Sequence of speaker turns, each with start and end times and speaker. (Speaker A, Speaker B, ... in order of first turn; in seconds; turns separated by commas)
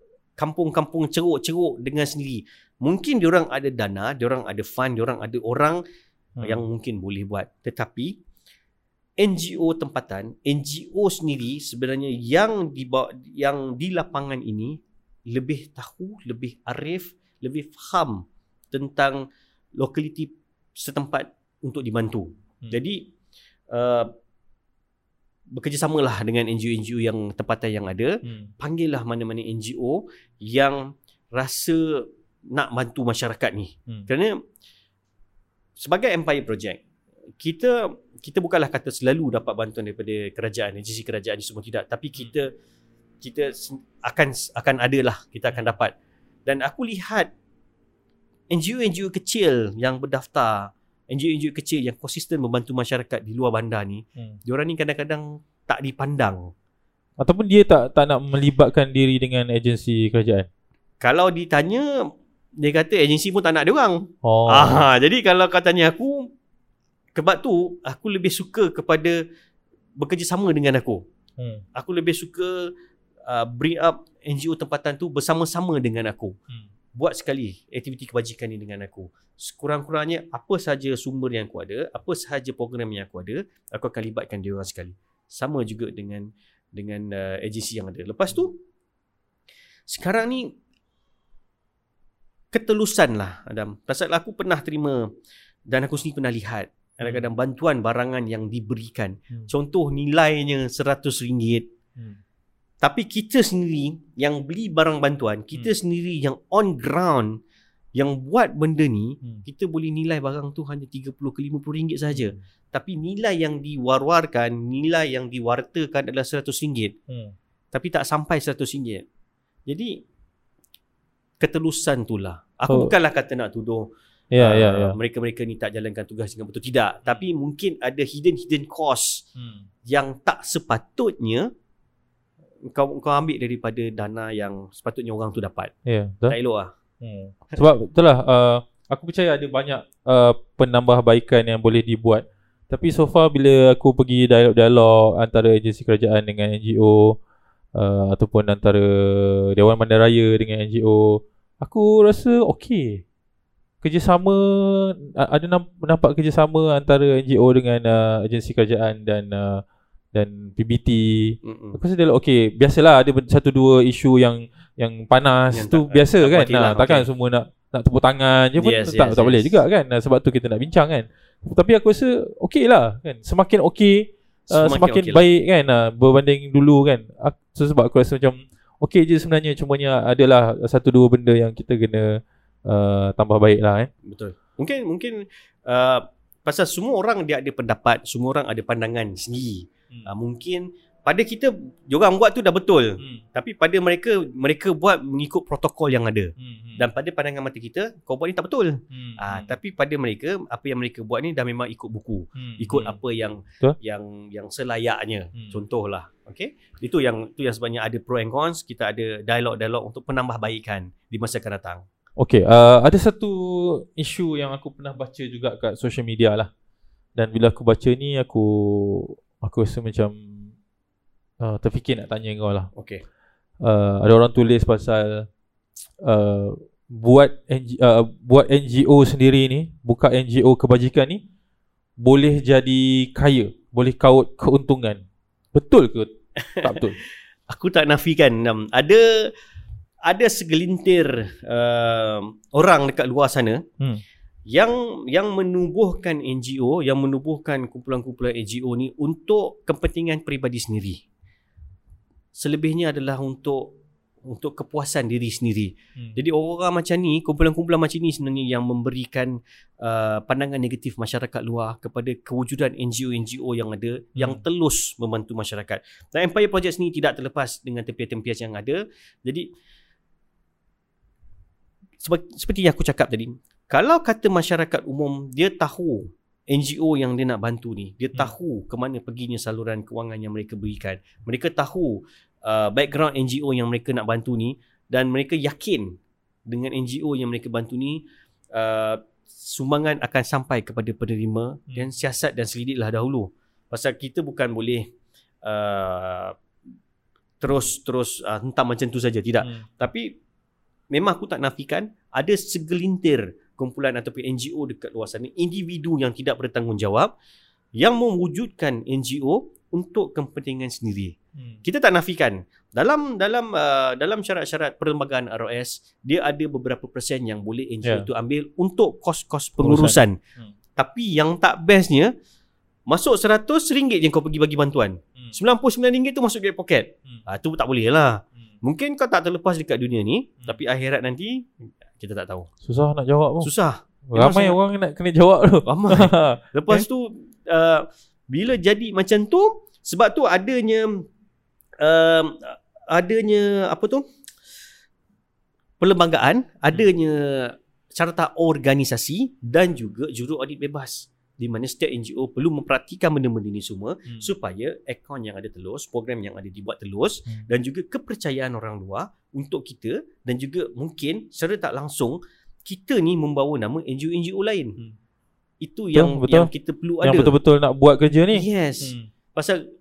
Speaker A: 0.4-5.8, Speaker B: 6.4-6.6, Speaker A: 6.4-8.2, Speaker A: 9.2-19.2, Speaker A: 19.8-23.1, Speaker A: 23.7-24.1, Speaker A: 25.5-30.8, Speaker B: 28.2-28.5, Speaker A: 31.3-34.3, Speaker A: 35.8-36.8, Speaker A: 37.4-42.5, Speaker A: 43.2-45.9, Speaker A: 46.5-47.3, Speaker A: 48.5-56.5, Speaker B: 57.2-60.5, Speaker A: 61.0-61.9, Speaker A: 62.6-66.3, Speaker B: 64.2-64.9, Speaker A: 67.2-69.2, Speaker A: 70.0-71.0, Speaker B: 71.4-71.6, Speaker A: 71.8-72.7, Speaker A: 73.2-76.4, Speaker A: 77.0-88.6, Speaker A: 89.9-90.5, Speaker A: 92.5-95.1, Speaker A: 95.7-101.7, Speaker A: 102.8-107.4, Speaker A: 108.0-117.0, Speaker B: 112.1-112.4, Speaker B: 117.1-117.3, Speaker A: 117.7-119.0, Speaker A: 119.7-120.0, Speaker A: 121.4-123.9, Speaker B: 122.7-122.9, Speaker B: 124.3-125.0, Speaker A: 124.4-129.2, Speaker B: 129.4-129.7, Speaker A: 129.9-131.5, Speaker A: 132.7-135.7, Speaker B: 135.9-136.4, Speaker A: 136.3-136.7, Speaker B: 137.0-147.2, Speaker B: 147.8-153.0, Speaker B: 153.8-183.9, Speaker A: 161.4-161.8, Speaker A: 165.5-167.1, Speaker A: 168.6-169.5, Speaker A: 174.5-175.2, Speaker A: 184.0-211.8, Speaker B: 196.4-196.8, Speaker B: 198.9-199.6, Speaker B: 202.4-203.0, Speaker B: 212.2-216.5, Speaker B: 217.2-220.5, Speaker B: 221.4-222.7, Speaker A: 222.8-223.0, Speaker B: 223.6-225.3, Speaker B: 226.0-231.2, Speaker B: 232.0-235.0, Speaker B: 235.5-237.0, Speaker A: 236.5-236.9, Speaker A: 237.5-239.3, Speaker A: 240.1-243.6, Speaker A: 244.5-251.0, Speaker A: 252.3-253.8, Speaker A: 254.2-269.5, Speaker B: 264.2-264.4, Speaker A: 272.0-286.0, Speaker A: 286.5-288.0, Speaker A: 288.5-294.9, Speaker A: 295.4-296.3, Speaker A: 297.4-300.1, Speaker A: 300.9-307.1, Speaker A: 307.8-320.2, Speaker B: 311.4-311.6, Speaker B: 319.6-320.5, Speaker A: 320.8-322.1, Speaker A: 322.9-332.5, Speaker B: 332.6-333.5, Speaker A: 333.4-334.6, Speaker B: 334.1-336.9, Speaker A: 335.7-341.0, Speaker A: 341.8-344.0, Speaker A: 345.8-364.8, Speaker A: 365.6-367.3, Speaker B: 365.9-366.5, Speaker B: 367.0-369.1, Speaker A: 368.3-369.6